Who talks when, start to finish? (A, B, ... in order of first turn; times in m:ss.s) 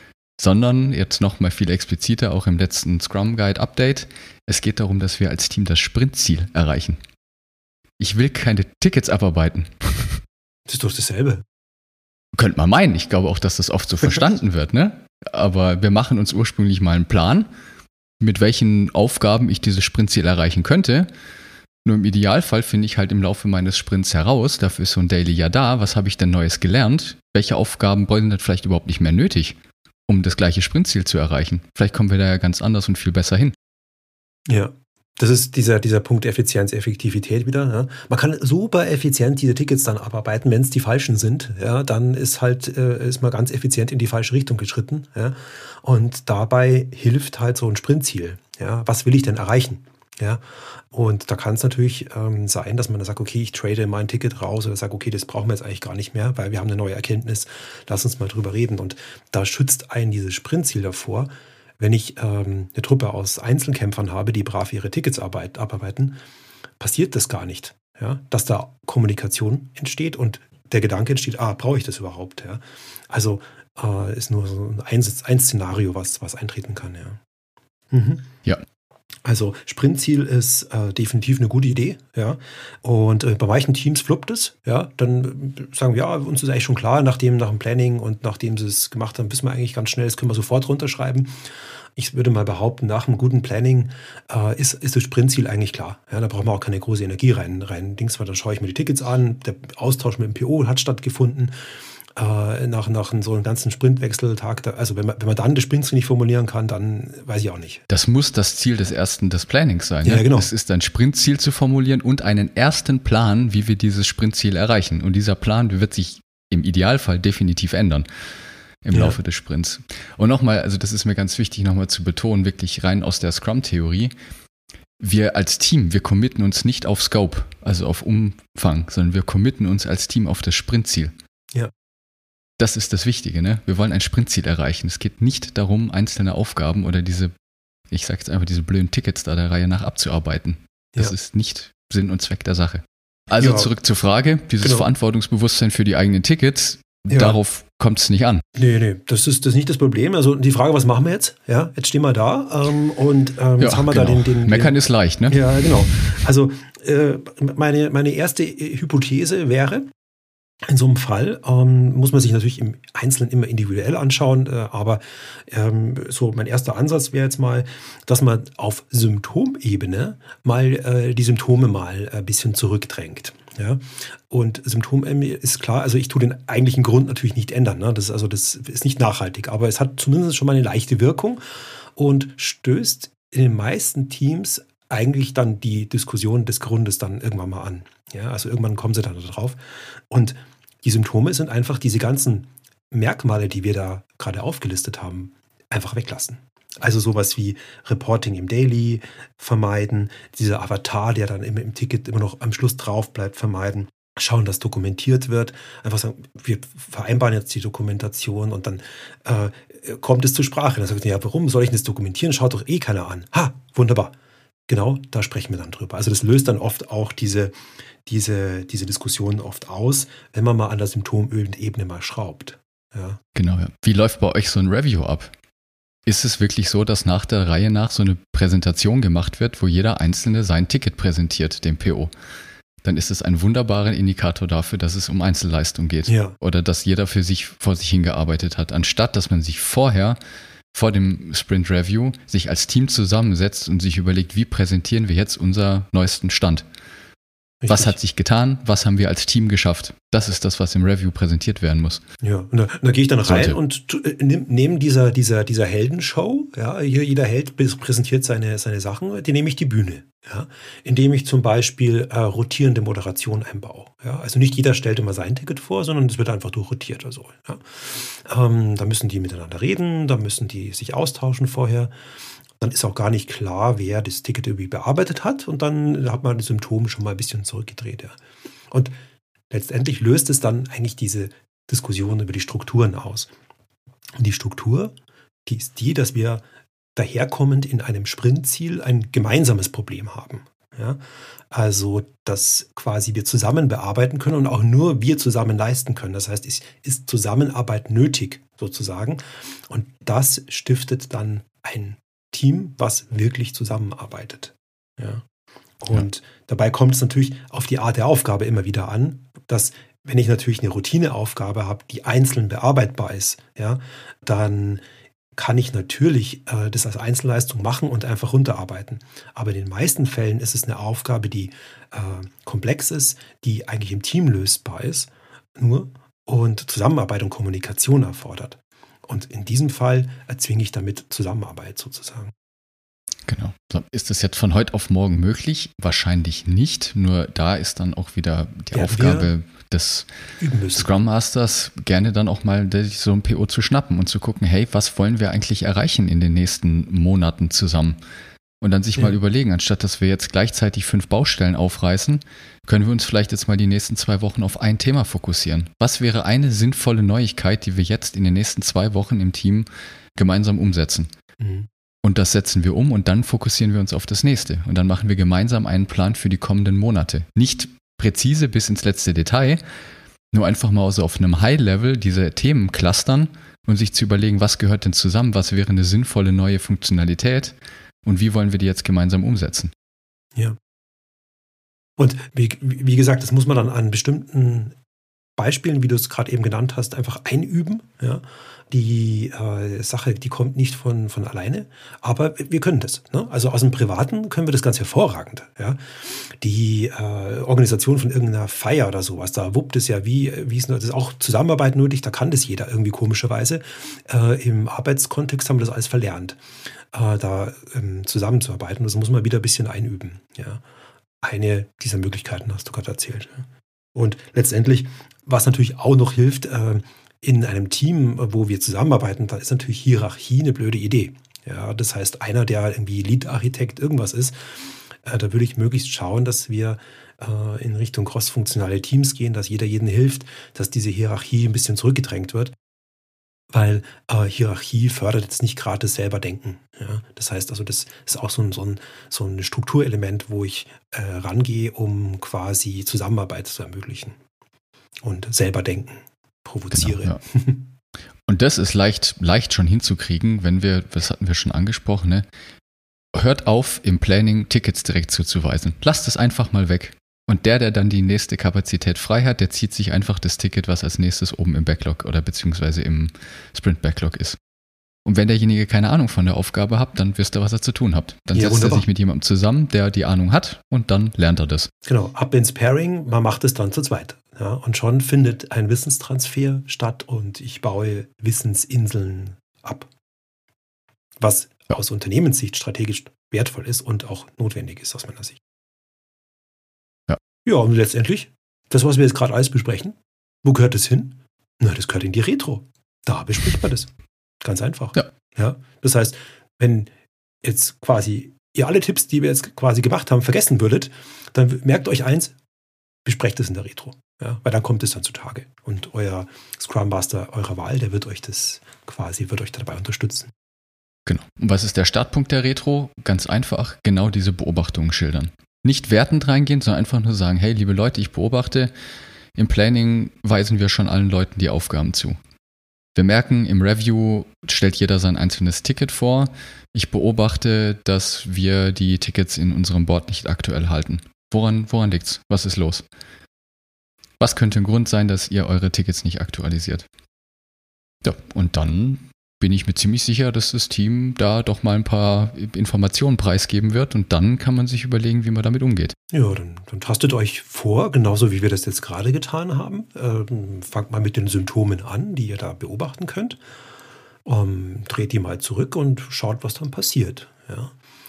0:00.4-0:07.0 A
0:08.0-0:10.2 A
0:10.7-0:11.4 B
0:12.3-0:17.5 A
0:18.2-0:21.1 A
0:21.8-0:29.6 A
0:30.1-0:33.5 A
0:34.5-1:06.2 B
1:06.8-1:17.2 B
1:17.9-1:18.3 B
1:19.2-1:31.4 B
1:32.0-1:41.5 B
1:42.1-1:47.8 B
1:47.9-1:58.1 A
1:50.0-1:50.5 B
1:58.8-2:04.1 A
2:05.0-2:11.1 A
2:12.6-2:17.3 A
2:17.9-2:28.4 A
2:23.4-2:23.7 B
2:24.6-2:24.9 B
2:27.1-2:27.4 B
2:28.5-2:34.8 B
2:33.6-2:36.0 A
2:35.3-2:39.9 B
2:40.7-3:01.4 B
3:01.9-3:09.6 B
3:10.1-3:34.1 B
3:34.7-3:37.5 B
3:38.0-3:43.2 B
3:43.3-3:45.3 A
3:46.0-3:52.1 A
3:52.8-4:00.2 A
3:56.1-3:56.4 B
4:00.7-4:06.6 A
4:07.6-4:07.9 B
4:07.7-4:12.0 A
4:12.2-4:31.9 B
4:13.2-4:13.6 A
4:32.6-4:38.2 B
4:39.5-4:43.3 B
4:44.2-4:44.9 B
4:45.4-4:46.4 B
4:47.0-5:05.2 B
5:05.8-5:14.8 B
5:15.4-5:32.3 B
5:33.3-5:40.1 A
5:38.7-5:39.3 B
5:40.4-5:40.9 B
5:40.7-5:48.0 A
5:48.6-6:01.1 A
6:01.4-6:01.7 B
6:02.0-6:09.6 A
6:10.3-6:19.7 A
6:22.0-6:24.8 B
6:25.4-6:46.4 B
6:46.9-6:50.6 B
6:51.2-7:12.5 B
7:13.5-7:24.2 B
7:25.0-7:27.7 B
7:26.7-7:27.2 A
7:28.3-7:32.2 A
7:33.1-7:44.4 A
7:45.0-7:51.7 A
7:48.3-7:48.8 B
7:51.8-7:59.9 B
8:01.2-8:05.4 B
8:07.4-8:13.9 B
8:14.4-8:16.9 B
8:17.4-8:22.4 B
8:23.0-8:30.3 B
8:31.1-8:38.7 A
8:39.3-8:42.2 A
8:42.9-8:52.8 A
8:54.2-8:56.9 A
8:58.0-9:06.0 A
9:06.1-9:13.4 B
9:14.2-9:17.7 B